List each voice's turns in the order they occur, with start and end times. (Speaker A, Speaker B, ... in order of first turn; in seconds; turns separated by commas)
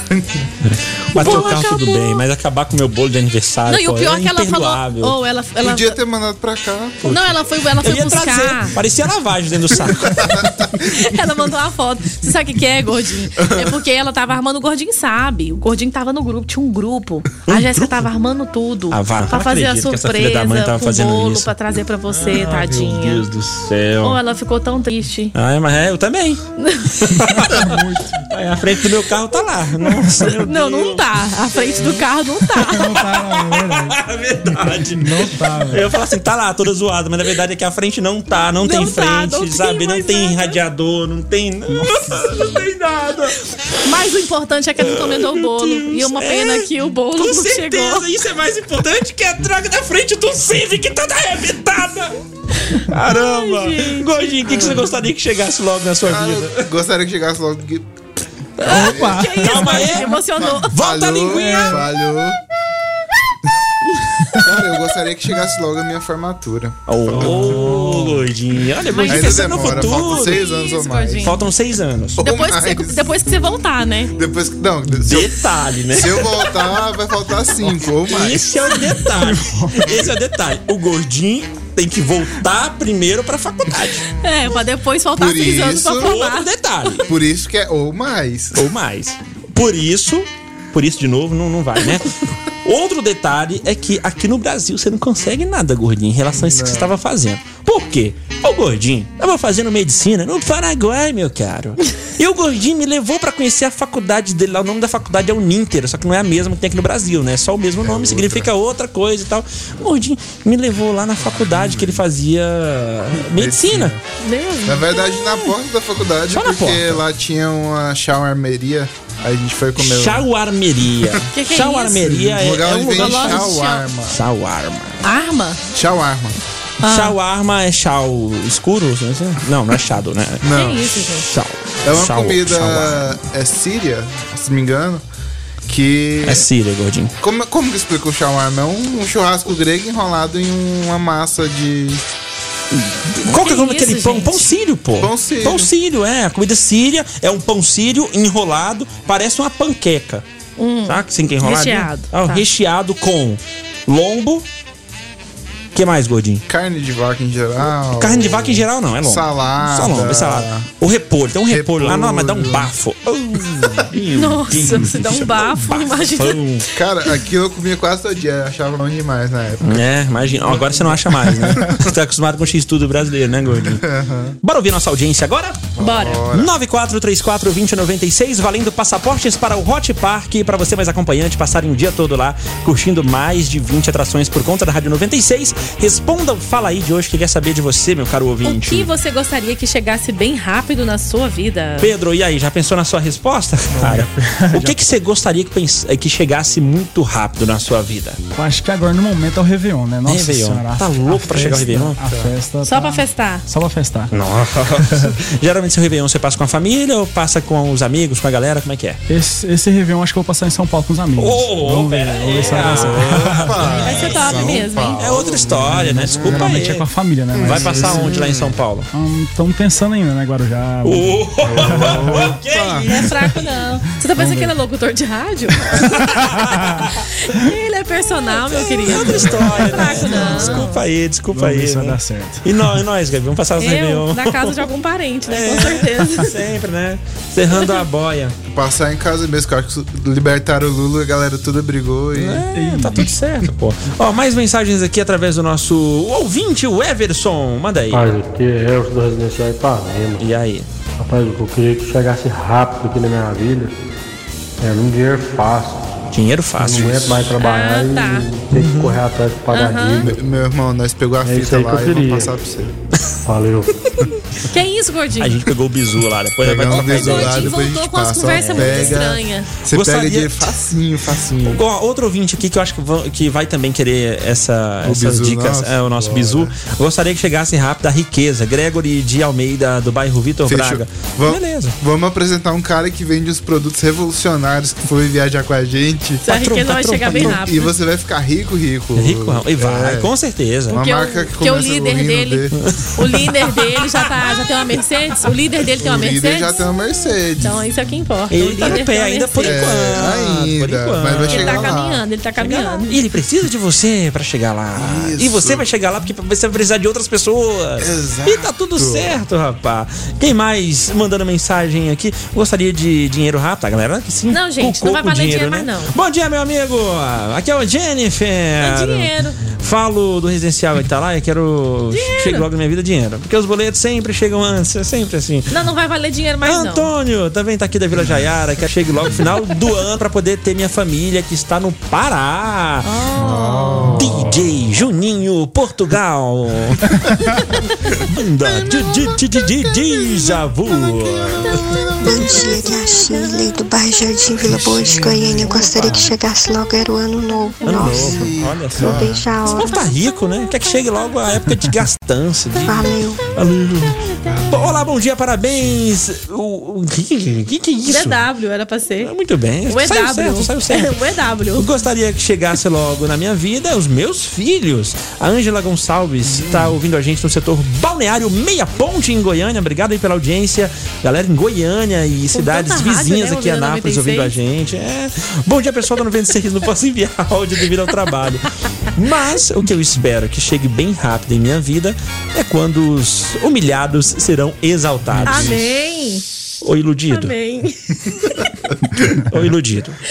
Speaker A: 0.6-5.2, Speaker B: 1.1-2.2, Speaker B: 3.7-6.0, Speaker C: 5.6-7.0, Speaker A: 7.0-10.6, Speaker B: 7.0-8.7, Speaker C: 10.1-10.5, Speaker B: 10.8-23.2, Speaker A: 17.5-18.1, Speaker A: 18.9-21.5, Speaker A: 22.1-24.2, Speaker B: 24.0-25.3, Speaker A: 25.3-26.4, Speaker B: 26.6-27.2, Speaker A: 27.1-31.0, Speaker D: 27.3-28.1, Speaker B: 30.4-33.0, Speaker D: 32.6-34.0, Speaker A: 32.8-43.4, Speaker D: 34.5-35.9, Speaker B: 38.6-40.6, Speaker D: 41.7-42.0, Speaker B: 43.8-48.1, Speaker A: 44.8-52.1, Speaker B: 52.7-54.7, Speaker A: 52.8-56.6, Speaker C: 56.0-57.9, Speaker B: 58.6-60.8, Speaker A: 58.6-61.8, Speaker D: 58.7-60.0, Speaker C: 58.7-59.1, Speaker C: 60.5-62.4, Speaker D: 61.4-61.8, Speaker C: 64.4-67.8, Speaker A: 66.9-70.4, Speaker D: 67.1-68.2, Speaker B: 68.9-71.4, Speaker C: 69.0-71.3, Speaker A: 71.2-72.2, Speaker C: 72.2-73.1, Speaker B: 72.2-74.1, Speaker C: 74.1-78.5, Speaker A: 75.0-76.5, Speaker A: 78.1-84.0, Speaker D: 79.2-80.1, Speaker B: 84.2-86.5, Speaker C: 85.2-86.1, Speaker A: 86.0-87.1, Speaker C: 87.0-88.6, Speaker A: 88.5-113.9, Speaker C: 96.3-96.9, Speaker C: 107.8-108.5, Speaker C: 111.4-112.0, Speaker C: 113.2-114.0, Speaker B: 114.2-115.2, Speaker C: 114.6-120.2, Speaker A: 116.3-117.0, Speaker A: 119.8-125.0, Speaker B: 121.3-122.2, Speaker C: 122.1-124.2, Speaker B: 122.9-123.8, Speaker B: 125.0-125.6, Speaker C: 125.7-126.4, Speaker B: 126.8-127.1, Speaker A: 126.8-130.5, Speaker C: 130.4-130.8, Speaker B: 130.5-131.3, Speaker A: 131.2-133.1, Speaker C: 131.8-135.0, Speaker C: 135.7-136.4, Speaker A: 136.2-137.1, Speaker C: 137.2-142.0, Speaker A: 142.7-150.2, Speaker B: 143.3-144.5, Speaker C: 145.0-145.7, Speaker B: 150.6-152.4, Speaker A: 150.9-154.4, Speaker A: 155.7-156.4, Speaker C: 156.5-160.7, Speaker A: 157.9-166.7, Speaker C: 161.5-162.7, Speaker B: 164.2-166.4, Speaker C: 166.7-169.8, Speaker A: 169.6-173.8, Speaker C: 170.5-170.9, Speaker C: 173.8-174.4, Speaker A: 174.4-175.7, Speaker C: 175.8-176.5, Speaker B: 175.8-176.2, Speaker A: 176.3-188.9, Speaker B: 188.4-191.9, Speaker A: 191.8-198.2, Speaker D: 193.7-194.8, Speaker D: 198.3-204.1, Speaker A: 200.1-202.0, Speaker B: 202.6-203.4, Speaker A: 204.1-209.0, Speaker D: 204.9-205.1, Speaker D: 209.1-213.7, Speaker A: 211.2-216.9, Speaker C: 212.5-215.8, Speaker B: 213.8-215.0, Speaker D: 215.8-218.1, Speaker C: 217.3-218.6, Speaker A: 217.4-218.9, Speaker D: 218.9-222.3, Speaker A: 220.8-223.4, Speaker C: 221.5-222.9, Speaker B: 222.9-225.9, Speaker D: 224.1-224.5, Speaker A: 225.7-226.9, Speaker D: 226.1-226.9, Speaker B: 227.2-230.8, Speaker A: 228.5-234.7, Speaker D: 228.9-230.6, Speaker D: 231.3-232.8, Speaker B: 233.6-236.3, Speaker A: 235.3-238.3, Speaker B: 237.5-237.8, Speaker C: 238.5-242.5, Speaker A: 242.1-248.1, Speaker D: 242.5-243.1, Speaker E: 247.9-250.2, Speaker A: 250.2-250.7, Speaker E: 251.0-253.7, Speaker E: 254.6-255.9, Speaker A: 256.1-257.3, Speaker E: 256.6-260.2, Speaker B: 257.4-258.3, Speaker A: 258.5-259.0, Speaker B: 259.5-260.1, Speaker C: 260.0-262.7, Speaker E: 261.2-262.3, Speaker E: 263.2-263.7, Speaker B: 264.5-265.4, Speaker A: 265.2-267.6, Speaker C: 266.4-271.6, Speaker B: 266.7-269.5, Speaker A: 268.2-269.0, Speaker A: 269.7-270.5, Speaker A: 271.4-281.8, Speaker C: 274.8-276.5, Speaker C: 280.4-286.2, Speaker B: 286.2-287.7, Speaker A: 286.3-287.4, Speaker C: 287.1-290.1, Speaker A: 288.9-290.8, Speaker C: 290.7-292.6, Speaker B: 290.7-296.6, Speaker A: 292.6-294.0, Speaker C: 295.8-297.6, Speaker B: 297.4-299.6, Speaker A: 298.3-301.8, Speaker C: 299.4-302.0, Speaker B: 301.3-302.9, Speaker A: 302.4-325.5, Speaker C: 304.7-305.7, Speaker C: 307.8-309.2, Speaker B: 314.3-315.9, Speaker B: 318.6-319.4, Speaker B: 321.9-322.4, Speaker B: 325.5-326.9, Speaker A: 326.4-332.9, Speaker B: 332.8-334.1, Speaker C: 333.2-334.3, Speaker A: 333.9-336.8, Speaker A: 338.0-341.6, Speaker B: 340.9-342.9, Speaker C: 341.6-342.4, Speaker F: 342.0-349.8, Speaker C: 344.4-346.1, Speaker A: 347.6-358.2, Speaker C: 347.7-349.2, Speaker B: 349.5-349.9, Speaker F: 352.6-353.2, Speaker B: 354.1-354.5, Speaker C: 354.3-354.6, Speaker B: 357.9-359.1, Speaker A: 359.0-360.9, Speaker B: 359.7-361.7, Speaker A: 361.5-385.6, Speaker B: 372.3-374.3, Speaker B: 385.2-386.2, Speaker A: 386.6-387.3, Speaker B: 387.1-388.4, Speaker A: 389.3-390.0